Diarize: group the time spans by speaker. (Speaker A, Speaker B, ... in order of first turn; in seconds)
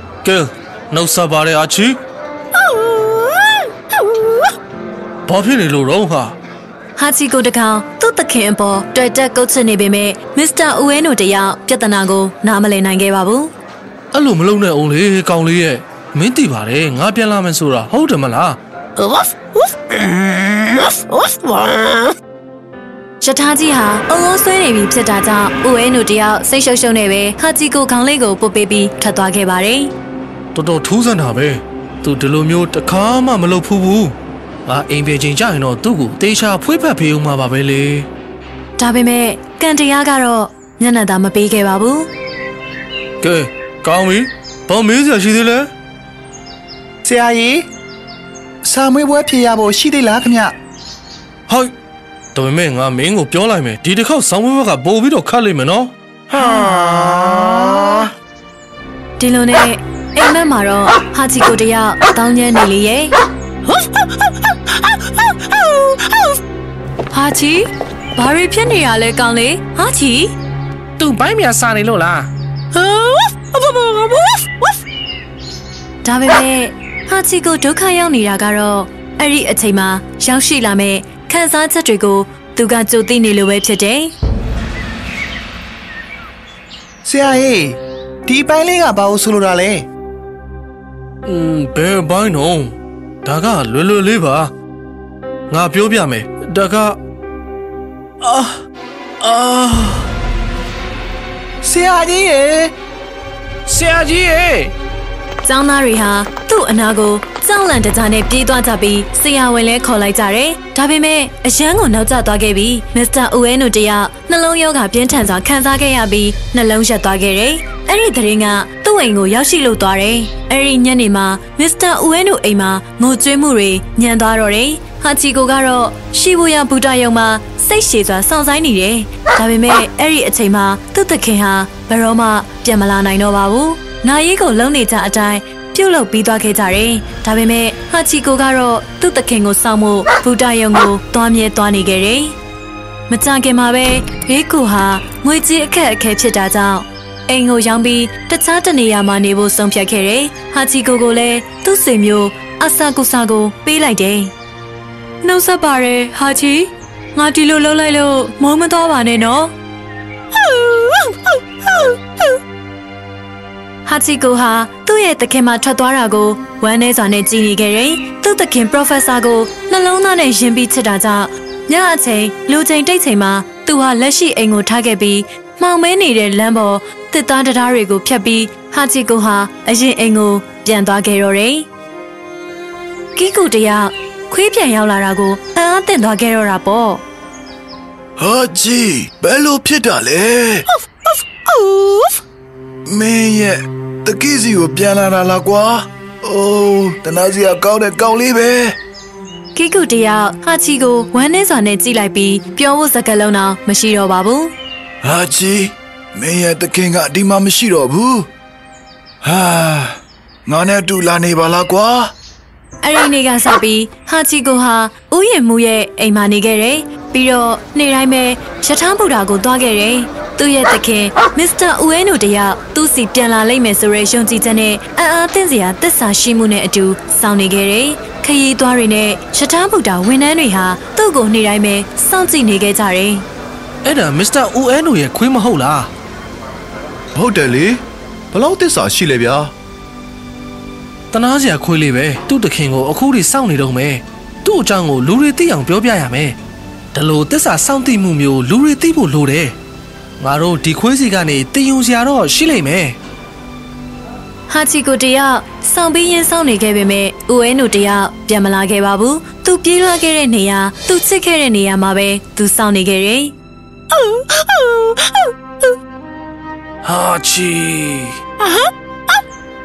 Speaker A: 0.2-2.0, 5.3-6.3, 14.1-22.1, 30.6-34.1, 34.7-38.1, 43.2-45.7, 52.3-56.5, 71.0-74.5, 91.3-94.5, 95.5-97.0, 98.2-98.6, 99.2-100.1, 103.7-104.7, 233.8-235.9, 241.1-246.4, 246.9-249.6, 250.2-253.0, 264.1-264.7, 266.8-268.2
Speaker B: 7.0-13.5, 23.2-29.9, 38.8-42.1, 59.2-63.2, 67.1-70.3, 76.0-84.1, 105.4-142.4, 143.1-154.3, 155.2-159.5, 160.4-162.0, 163.8-181.7, 183.2-187.0, 199.6-204.5, 212.8-233.3, 254.5-263.4
Speaker C: 47.0-47.6, 48.6-50.5, 56.3-58.0, 87.0-89.8, 101.6-102.7, 237.2-237.8, 238.3-239.5
Speaker D: 188.2-190.7, 192.9-198.8, 205.0-208.3, 209.2-212.1